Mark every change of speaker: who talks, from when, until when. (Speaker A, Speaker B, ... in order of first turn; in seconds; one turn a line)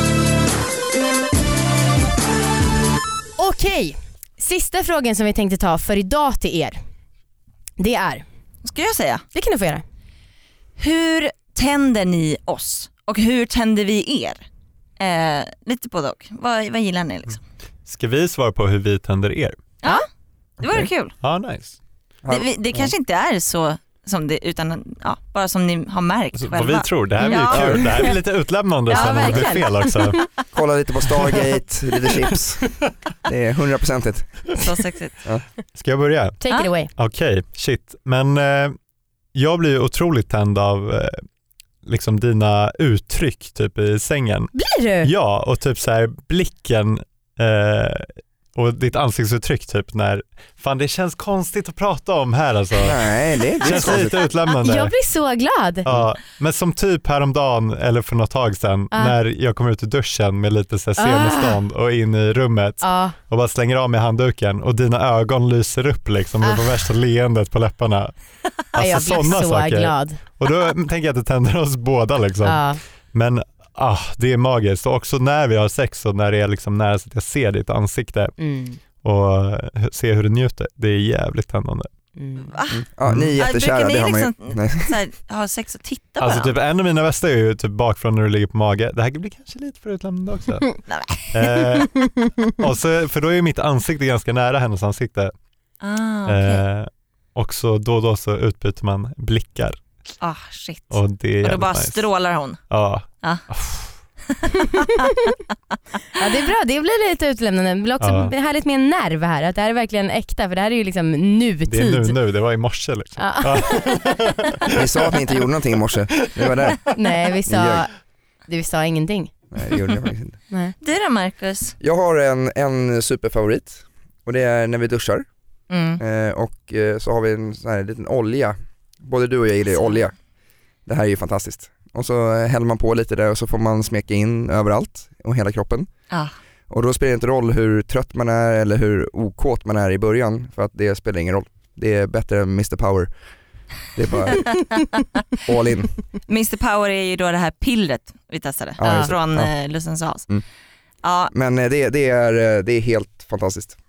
Speaker A: 3.4-6.8
Speaker A: 7.8-8.2
Speaker B: 8.6-9.2
Speaker A: 9.3-9.8
Speaker B: 10.8-14.4
Speaker B: 15.0-17.4
Speaker C: 17.9-19.6
Speaker B: 20.6-21.1
Speaker C: 21.2-21.8
Speaker D: 22.2-22.9
Speaker B: 22.3-28.1
Speaker C: 26.4-30.2
Speaker D: 27.5-27.9
Speaker B: 28.9-29.9
Speaker A: 28.9-30.2
Speaker D: 30.5-32.6
Speaker C: 31.1-31.4
Speaker C: 32.1-32.4
Speaker D: 33.2-34.4
Speaker B: 34.6-35.2
Speaker C: 35.7-36.4
Speaker A: 36.4-36.9
Speaker C: 36.9-38.8
Speaker C: 39.3-41.2
Speaker C: 41.8-53.0
Speaker A: 44.5-45.1
Speaker D: 52.8-54.2
Speaker C: 53.6-54.9
Speaker A: 54.6-55.9
Speaker C: 55.8-68.1
Speaker A: 58.9-59.2
Speaker A: 61.0-61.6
Speaker A: 62.8-63.1
Speaker C: 68.7-78.3
Speaker A: 68.7-70.2
Speaker A: 72.4-72.8
Speaker A: 78.4-78.8
Speaker C: 79.0-81.9
Speaker A: 82.2-82.5
Speaker B: 82.4-82.8
Speaker D: 82.7-84.9
Speaker C: 83.0-83.3
Speaker B: 83.4-86.5
Speaker C: 86.2-90.8
Speaker B: 90.9-91.8
Speaker C: 91.3-95.3
Speaker B: 95.8-96.6
Speaker C: 96.3-99.8
Speaker B: 100.2-102.6
Speaker C: 100.9-102.0
Speaker C: 102.7-103.9
Speaker B: 104.3-105.1
Speaker A: 104.5-105.4
Speaker A: 106.1-112.2
Speaker C: 108.0-108.3
Speaker C: 111.7-115.2
Speaker A: 113.2-113.8
Speaker D: 114.7-116.9
Speaker A: 116.9-117.9
Speaker D: 117.5-117.8
Speaker A: 118.5-119.3
Speaker D: 119.5-120.4
Speaker B: 120.8-121.7
Speaker D: 121.8-125.2
Speaker B: 125.7-126.0
Speaker D: 126.0-130.1
Speaker D: 130.8-135.9
Speaker D: 136.7-143.1
Speaker D: 143.9-144.6
Speaker D: 145.4-145.9
Speaker B: 146.3-150.3
Speaker D: 148.8-149.5
Speaker A: 148.8-149.1
Speaker B: 151.0-151.3
Speaker D: 151.3-153.8